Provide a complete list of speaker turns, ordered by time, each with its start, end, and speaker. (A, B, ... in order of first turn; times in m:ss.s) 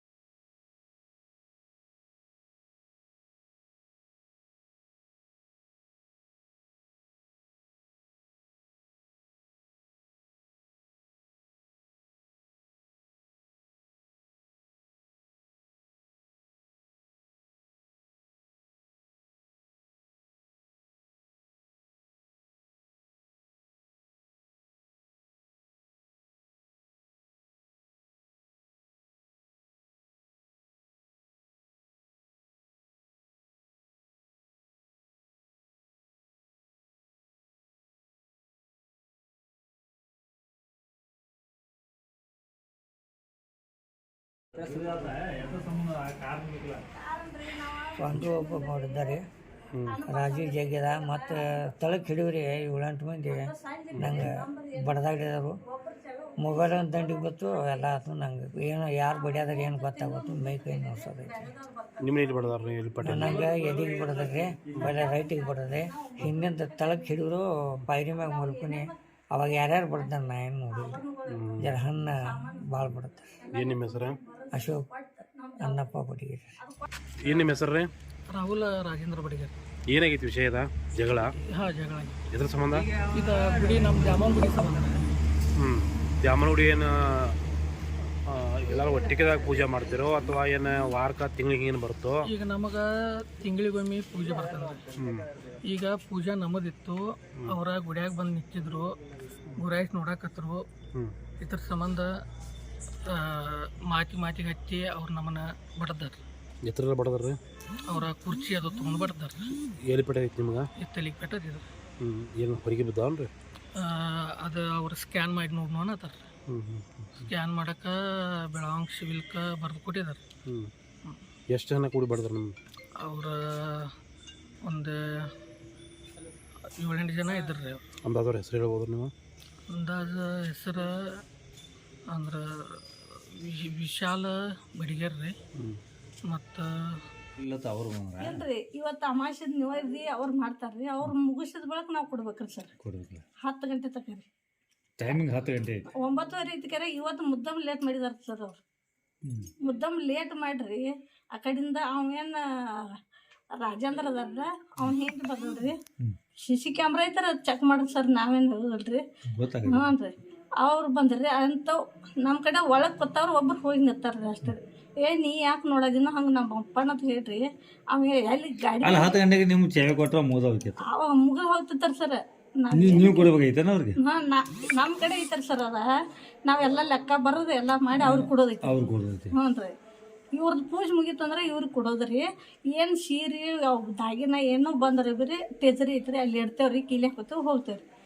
0:44.6-0:46.7 A
0:46.9-0:49.2 B
0:48.0-0:49.2 C
0:49.9-0:52.1 B
0:50.0-0:55.6 C
0:53.3-0:55.0 B
0:53.9-0:54.3 D
0:55.7-0:57.8 B
0:56.4-1:01.5 C
0:59.1-1:04.2 B
1:02.0-1:03.5 D
1:03.0-1:11.0 C
1:04.8-1:07.2 B
1:08.1-1:08.9 B
1:09.5-1:11.4 B
1:11.3-1:11.7 D
1:11.6-1:13.3 C
1:12.0-1:15.9 B
1:13.5-1:14.2 D
1:14.5-1:14.8 C
1:15.6-1:16.5 C
1:16.6-1:17.6 B
1:17.2-1:17.9 D
1:18.3-1:19.5 E
1:19.9-1:21.3 D
1:21.5-1:22.2 E
1:22.3-1:23.0 D
1:23.0-1:25.0 E
1:25.6-1:27.4 D
1:28.3-1:32.2 D
1:32.3-1:34.9 E
1:35.0-1:35.3 D
1:35.6-1:39.0 E
1:39.6-1:40.6 E
1:41.4-1:42.1 E
1:43.0-1:46.2 E
1:46.6-1:47.4 D
1:47.9-1:49.5 E
1:49.8-1:50.7 D
1:50.8-1:51.7 E
1:52.0-1:53.3 D
1:53.8-1:56.3 E
1:56.5-1:57.2 D
1:57.2-1:58.0 E
1:58.5-2:00.2 E
2:01.5-2:02.5 D
2:03.0-2:03.9 E
2:04.6-2:05.0 E
2:06.8-2:07.8 E
2:08.0-2:09.1 D
2:09.7-2:11.2 E
2:12.1-2:15.3 E
2:16.3-2:16.6 E
2:17.4-2:18.4 A
2:18.2-2:22.7 B
2:22.8-2:23.2 A
2:23.4-2:24.2 B
2:25.0-2:25.8 A
2:26.0-2:28.6 B
2:29.6-2:32.9 B
2:33.6-2:35.8 B
2:36.4-2:39.0 B
2:39.4-2:39.8 A
2:39.7-2:49.2 B
2:49.0-2:50.7 A
2:50.8-2:53.3 B
2:53.0-2:53.9 A
2:54.0-2:55.8 B
2:56.4-2:59.7 B
3:00.3-3:07.8 B